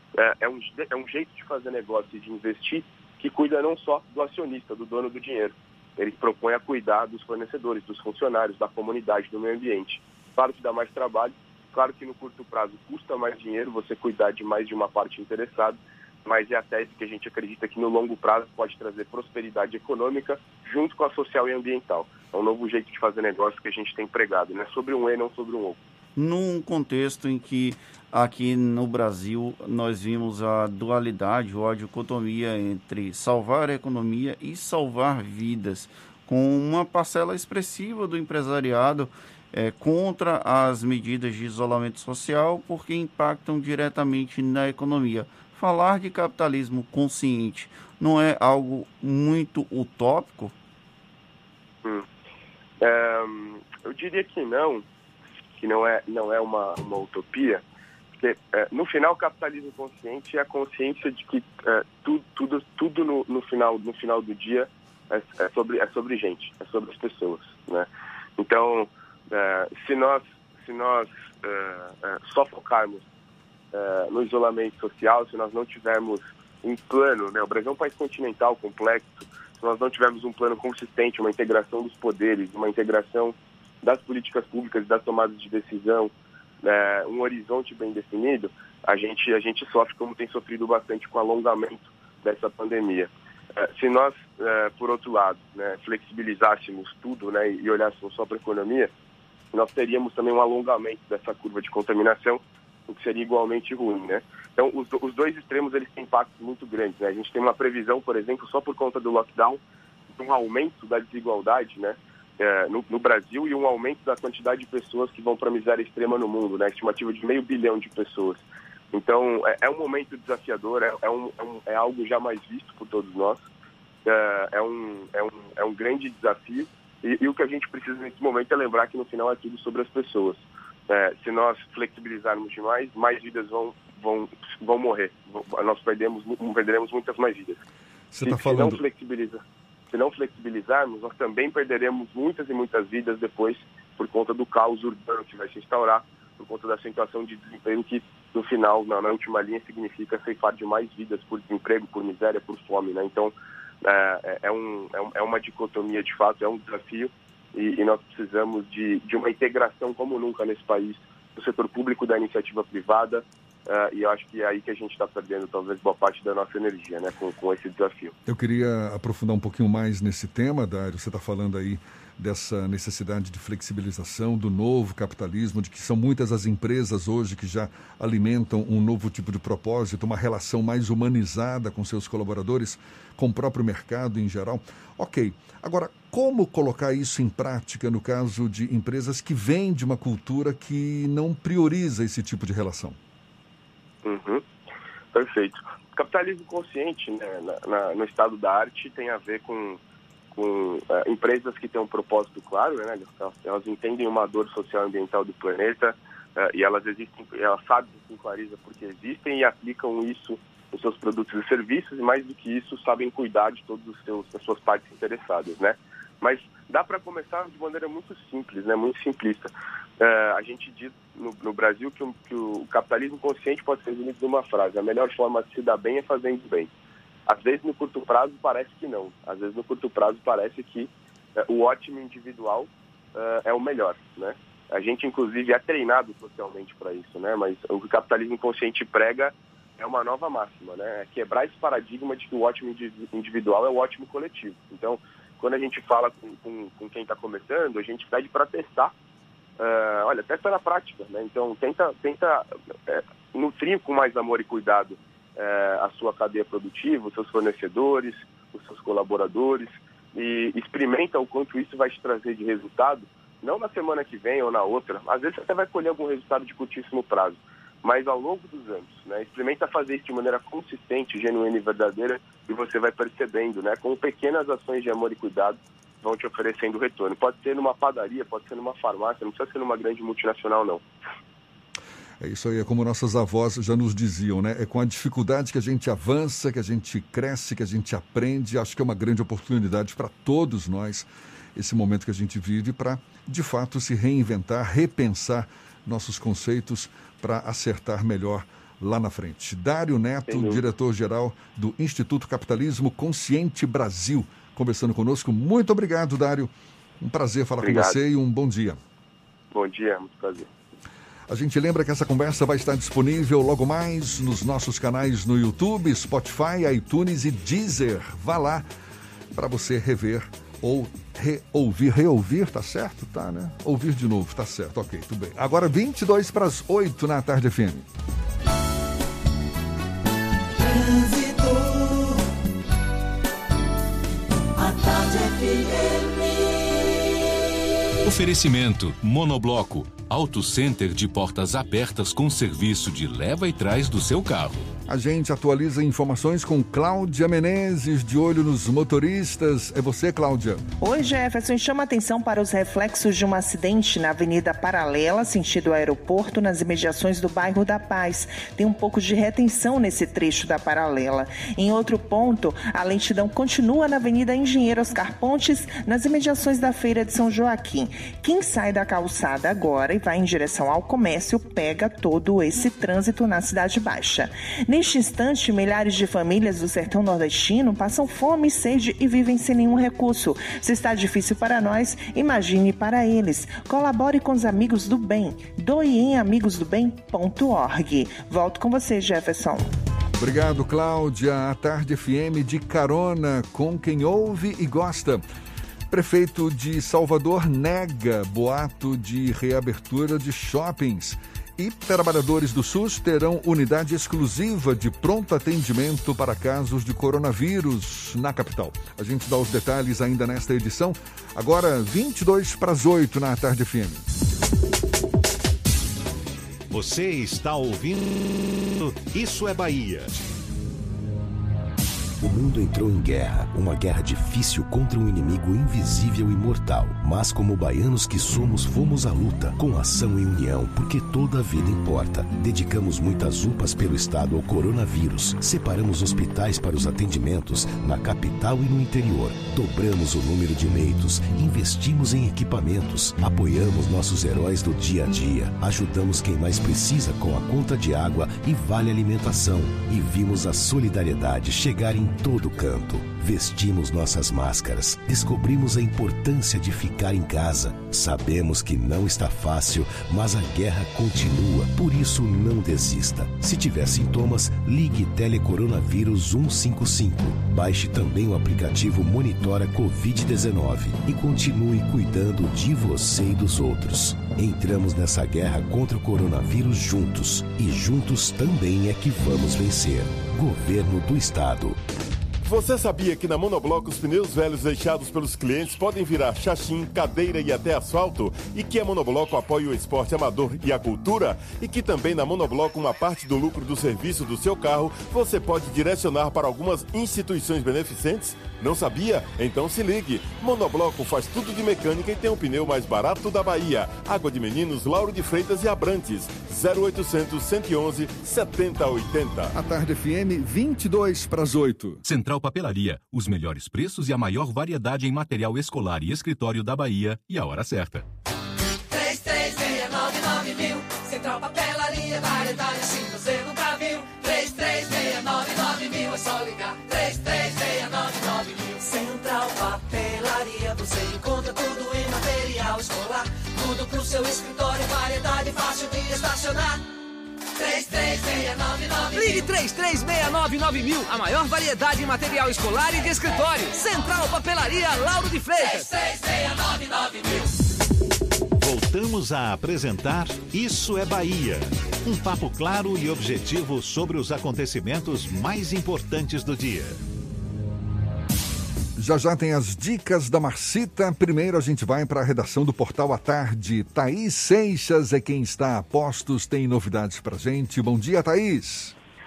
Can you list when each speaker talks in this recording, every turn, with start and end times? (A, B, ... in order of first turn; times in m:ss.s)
0:00.2-0:25.8 A
0:26.2-0:50.5 B
0:52.8-0:54.8 A
0:55.6-0:57.6 A
0:58.2-1:07.9 A
1:08.4-1:13.0 A
1:13.7-1:38.9 A
1:39.5-1:49.6 A
1:50.1-2:03.4 A
2:04.0-2:17.6 A
2:18.1-2:18.8 C
2:18.2-2:19.4 A
2:19.9-2:48.2 A
2:48.3-3:13.0 C
3:14.0-3:14.4 A
3:15.1-3:19.8 A
3:20.3-3:46.7 A
3:47.3-4:08.9 A
4:09.6-4:40.8 A
4:42.2-5:08.8 C
5:00.3-5:00.6 A
5:07.6-5:08.0 A
5:09.5-5:10.5 A
5:11.3-5:18.7 C
5:19.4-5:27.9 C
5:30.6-5:32.2 D
5:34.6-5:37.2 D
5:38.0-5:44.7 E
5:44.9-5:50.6 C
5:50.8-6:29.7 F
6:30.2-6:35.2 C
6:35.9-6:54.0 C
6:56.7-7:00.2 G
7:02.2-8:01.8 H
8:02.4-8:29.5 I
8:29.5-8:32.0 C
8:32.0-8:38.1 E
8:38.9-8:56.8 D
8:57.6-8:59.5 D
8:59.1-9:05.9 J
9:05.7-9:07.3 D
9:08.6-9:17.0 G
9:19.0-9:29.0 C